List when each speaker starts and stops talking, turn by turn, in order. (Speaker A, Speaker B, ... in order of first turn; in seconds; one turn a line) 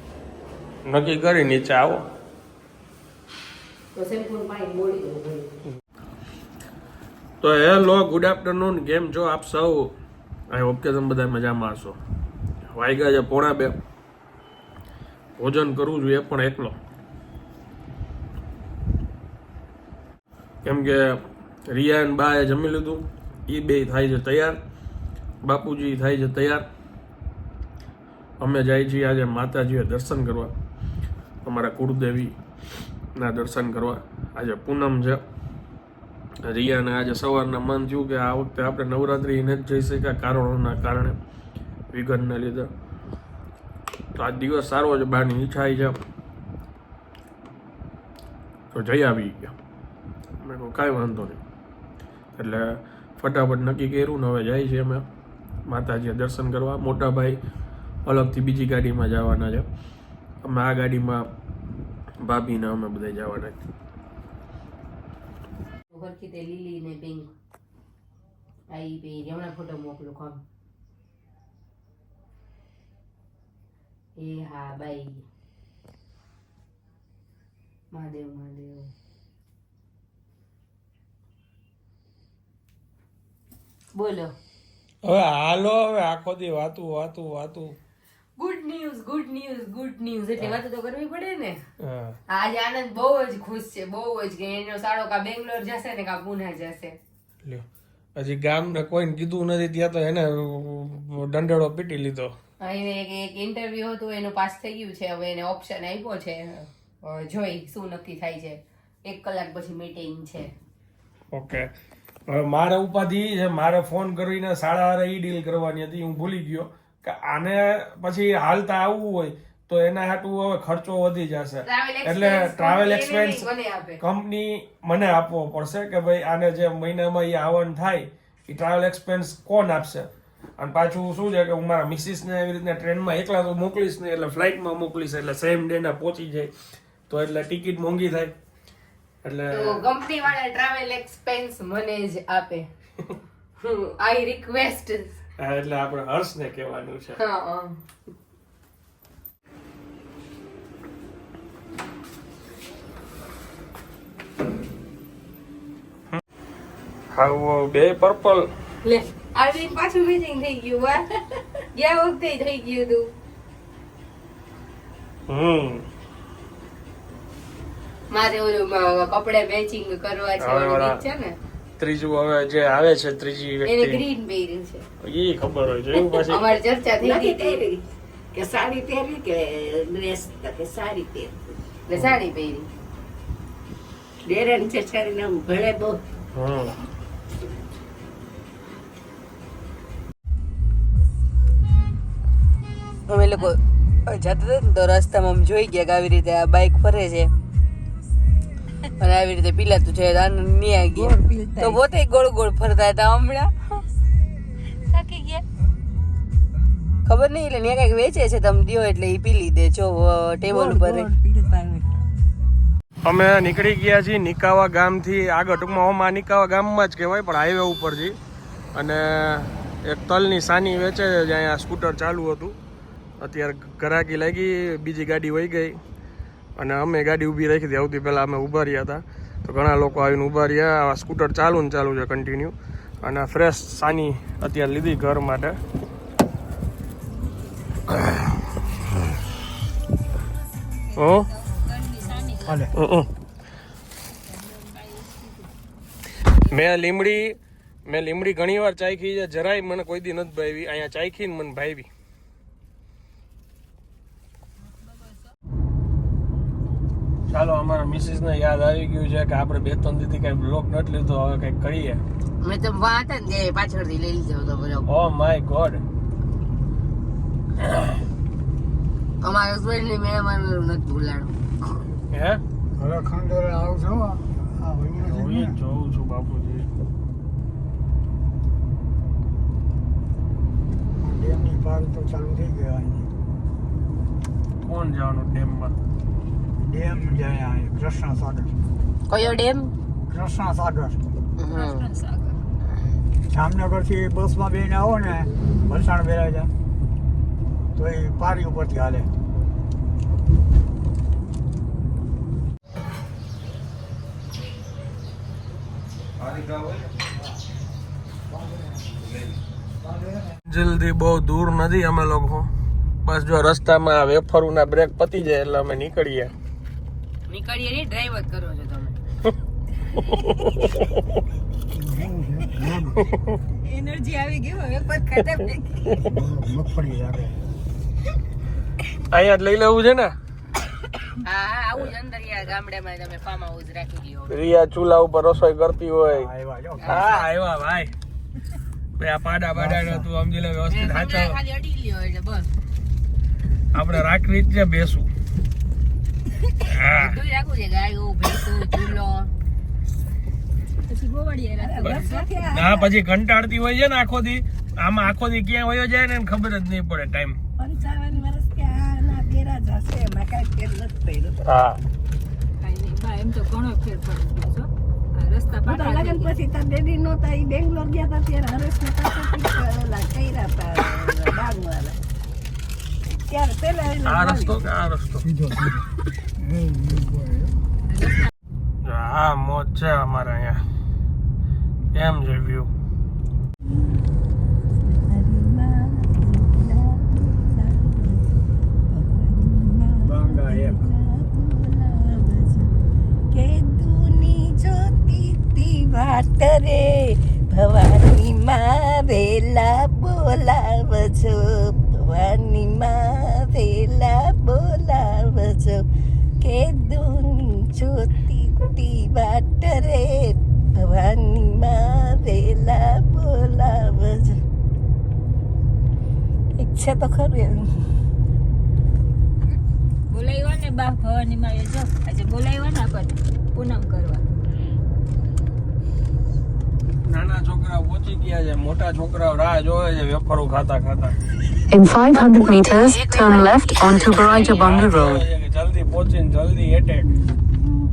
Speaker A: 0.8-2.1
Speaker B: 3.9-5.5
Speaker A: 7.4-9.9
Speaker A: 10.5-12.0
Speaker A: 12.7-13.8
Speaker A: 15.4-16.8
Speaker A: 20.6-24.6
Speaker A: 25.4-26.7
Speaker A: 28.4-30.5
Speaker A: 31.4-32.3
Speaker A: 33.1-35.2
Speaker A: 36.4-41.2
Speaker A: 41.9-42.7
Speaker A: 44.1-46.0
Speaker A: 48.7-49.5
Speaker A: 50.4-51.4
Speaker A: 52.4-55.0
Speaker A: 55.7-57.4
Speaker A: 58.0-59.7
Speaker A: 60.4-61.3
Speaker A: 62.2-63.6
Speaker B: 65.9-67.3
Speaker B: 68.7-70.4
Speaker B: 74.2-75.2
Speaker B: 77.9-78.9
Speaker B: 83.9-84.3
Speaker A: 85.0-87.8
Speaker B: 88.4-91.6
Speaker A: 91.8-92.2
Speaker B: 92.3-97.0
Speaker A: 98.2-102.3
Speaker B: 102.6-110.5
Speaker A: 111.3-111.7
Speaker A: 112.3-123.5
Speaker B: 121.6-124.0
Speaker A: 124.0-136.5
Speaker A: 137.1-138.3
Speaker A: 139.2-139.8
Speaker B: 139.5-142.7
Speaker B: 143.6-145.1
Speaker A: 145.4-147.2
Speaker B: 147.2-147.8
Speaker A: 157.1-158.4
Speaker B: 158.8-163.1
Speaker A: 165.3-165.8
Speaker B: 168.1-171.3
Speaker A: 170.4-171.0
Speaker A: 171.8-174.0
Speaker B: 173.6-174.8
Speaker A: 175.0-176.4
Speaker B: 176.3-177.6
Speaker C: 177.0-177.8
Speaker C: 178.3-181.4
Speaker B: 181.9-182.7
Speaker C: 184.2-186.0
Speaker A: 186.3-186.8
Speaker B: 193.1-197.3
Speaker B: 199.0-203.5
Speaker C: 201.0-201.8
Speaker B: 204.9-205.4
Speaker B: 207.0-211.1
Speaker C: 210.5-211.8
Speaker A: 213.0-218.2
Speaker A: 218.7-222.6
Speaker A: 223.2-225.8
Speaker A: 226.6-235.6
Speaker A: 240.9-241.3
Speaker D: 241.5-242.5
Speaker E: 242.4-242.7
Speaker A: 242.7-243.1
Speaker D: 244.3-245.4
Speaker A: 246.5-251.9
Speaker A: 257.3-262.0
Speaker B: 262.4-264.9
Speaker A: 264.9-265.8
Speaker B: 269.2-271.4
Speaker A: 272.1-272.4
Speaker E: 272.8-275.6
Speaker A: 275.0-276.7
Speaker E: 281.0-283.1
Speaker A: 284.6-285.7
Speaker E: 286.6-288.6
Speaker B: 289.1-289.7
Speaker E: 290.1-291.0
Speaker B: 291.4-291.9
Speaker D: 291.5-292.4
Speaker E: 293.3-296.5
Speaker E: 297.8-299.1
Speaker E: 309.9-310.3
Speaker A: 310.5-312.5
Speaker A: 313.0-316.3
Speaker B: 317.3-319.0
Speaker A: 320.3-320.6
Speaker E: 321.7-323.0
Speaker D: 323.7-325.2
Speaker B: 324.0-325.4
Speaker E: 326.0-327.4
Speaker A: 329.1-330.1
Speaker B: 331.2-334.4
Speaker A: 334.3-336.3
Speaker E: 336.1-337.1
Speaker B: 336.8-337.3
Speaker A: 336.9-337.9
Speaker A: 339.0-341.4
Speaker E: 339.5-340.1
Speaker B: 340.7-342.5
Speaker A: 343.7-345.1
Speaker A: 346.7-347.1
Speaker B: 346.9-349.3
Speaker D: 350.9-352.3
Speaker C: 351.6-352.9
Speaker B: 351.6-352.3
Speaker A: 352.5-357.4
Speaker C: 357.6-361.4
Speaker A: 361.4-361.8
Speaker D: 362.6-366.3
Speaker C: 365.6-372.0
Speaker C: 373.1-374.6
Speaker A: 374.0-375.3
Speaker E: 375.3-375.8
Speaker E: 376.4-377.5
Speaker A: 378.8-380.6
Speaker A: 381.9-382.7
Speaker C: 384.9-388.2
Speaker C: 388.9-392.7
Speaker E: 390.0-390.9
Speaker C: 393.3-405.8
Speaker C: 406.4-414.4
Speaker C: 416.6-417.9
Speaker D: 420.1-424.2
Speaker A: 427.0-431.1
Speaker F: 431.7-435.2
Speaker B: 432.2-434.8
Speaker A: 434.2-437.1